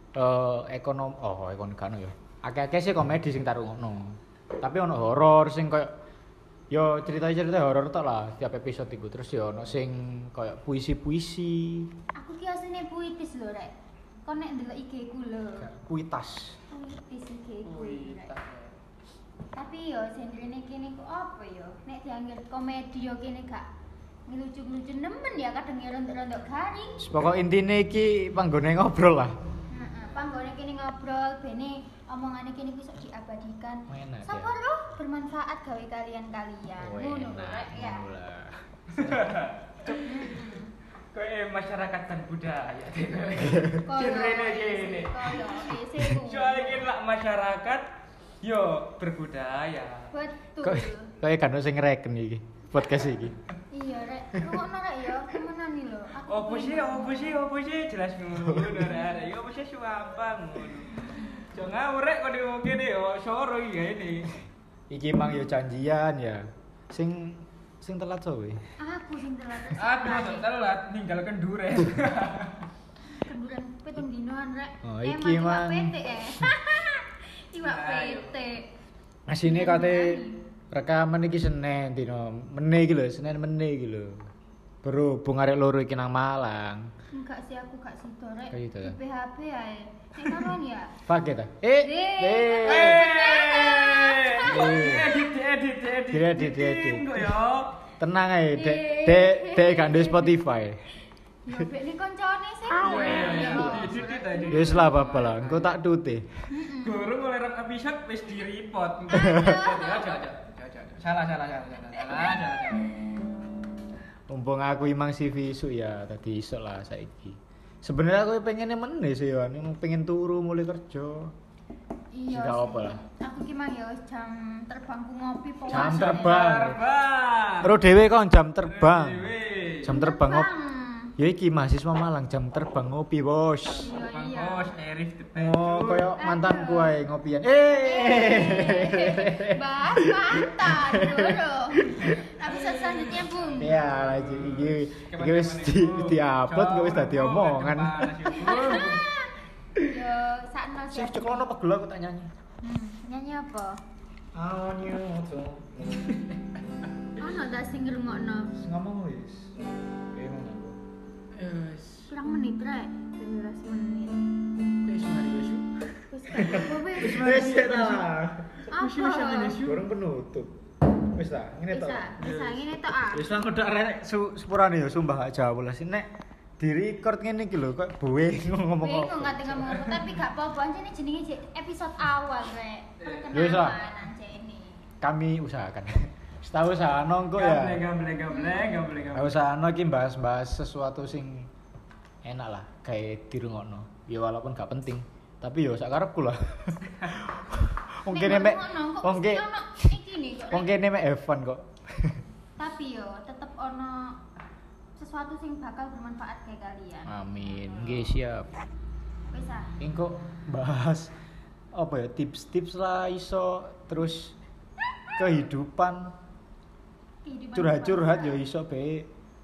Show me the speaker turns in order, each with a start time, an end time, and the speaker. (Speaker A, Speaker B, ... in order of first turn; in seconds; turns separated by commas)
Speaker A: 0.2-5.9, Speaker A: 6.7-11.9, Speaker B: 12.2-13.7, Speaker B: 14.2-15.7, Speaker A: 15.6-16.6, Speaker B: 16.7-18.3, Speaker C: 17.6-18.8, Speaker B: 19.6-23.7, Speaker B: 24.3-27.0, Speaker A: 27.0-29.3, Speaker B: 29.7-38.1, Speaker A: 33.9-34.5, Speaker A: 36.8-39.3, Speaker C: 38.9-40.3, Speaker B: 39.8-40.7, Speaker C: 41.1-47.9, Speaker B: 43.8-46.9, Speaker C: 48.4-50.1, Speaker B: 50.1-51.1, Speaker A: 50.6-53.4, Speaker B: 53.7-57.5, Speaker C: 56.3-64.4, Speaker A: 58.4-59.0, Speaker A: 64.9-68.6, Speaker B: 68.8-70.5, Speaker C: 69.8-72.6, Speaker B: 73.2-78.7, Speaker A: 74.8-76.5, Speaker C: 77.6-78.3, Speaker A: 79.3-84.3, Speaker B: 79.4-80.4, Speaker A: 84.8-86.9, Speaker B: 87.1-91.0, Speaker A: 88.5-89.0, Speaker A: 91.1-93.1, Speaker B: 91.8-95.2, Speaker C: 92.6-97.8, Speaker A: 94.4-95.2, Speaker A: 96.1-97.4, Speaker A: 98.0-100.8, Speaker B: 98.5-100.4, Speaker B: 101.5-104.9, Speaker A: 102.7-106.4, Speaker C: 102.8-105.8, Speaker B: 106.5-107.1, Speaker C: 106.8-112.9, Speaker A: 109.1-109.6, Speaker B: 109.1-110.1, Speaker A: 114.3-121.3, Speaker B: 122.1-126.7, Speaker A: 122.3-123.0, Speaker A: 125.7-126.8, Speaker C: 125.7-127.8, Speaker A: 127.6-130.5, Speaker C: 128.7-130.0, Speaker B: 129.9-131.2, Speaker A: 131.2-133.9, Speaker C: 133.7-136.1, Speaker B: 133.8-134.7, Speaker A: 135.4-142.2, Speaker B: 136.2-137.0, Speaker B: 137.7-143.8, Speaker C: 142.4-149.1, Speaker A: 143.6-148.3, Speaker B: 148.3-151.5, Speaker A: 150.9-152.3, Speaker B: 152.6-153.8, Speaker A: 154.3-156.1, Speaker B: 157.2-158.6, Speaker A: 158.6-159.6, Speaker A: 160.1-160.8, Speaker C: 161.3-162.2, Speaker B: 162.1-164.2, Speaker C: 164.8-165.7, Speaker B: 166.1-168.1, Speaker A: 166.3-168.7, Speaker C: 166.4-168.1, Speaker C: 168.7-169.8, Speaker B: 168.7-169.6, Speaker A: 169.6-170.6, Speaker A: 171.1-172.2, Speaker B: 171.7-173.4, Speaker C: 172.2-172.7, Speaker A: 173.1-176.1, Speaker A: 176.6-179.8, Speaker B: 178.8-184.8, Speaker C: 179.7-180.1, Speaker C: 183.0-183.3, Speaker A: 183.3-183.8, Speaker A: 185.0-187.8, Speaker C: 187.3-189.4, Speaker B: 188.3-188.9, Speaker A: 189.1-191.5, Speaker A: 192.2-199.9, Speaker B: 198.1-200.8, Speaker A: 200.5-202.2, Speaker B: 202.6-204.2, Speaker B: 205.0-207.2, Speaker A: 207.1-208.5, Speaker B: 209.3-209.7, Speaker A: 209.8-211.1, Speaker A: 211.7-214.4, Speaker A: 215.2-216.1, Speaker B: 217.2-218.4, Speaker A: 217.5-219.1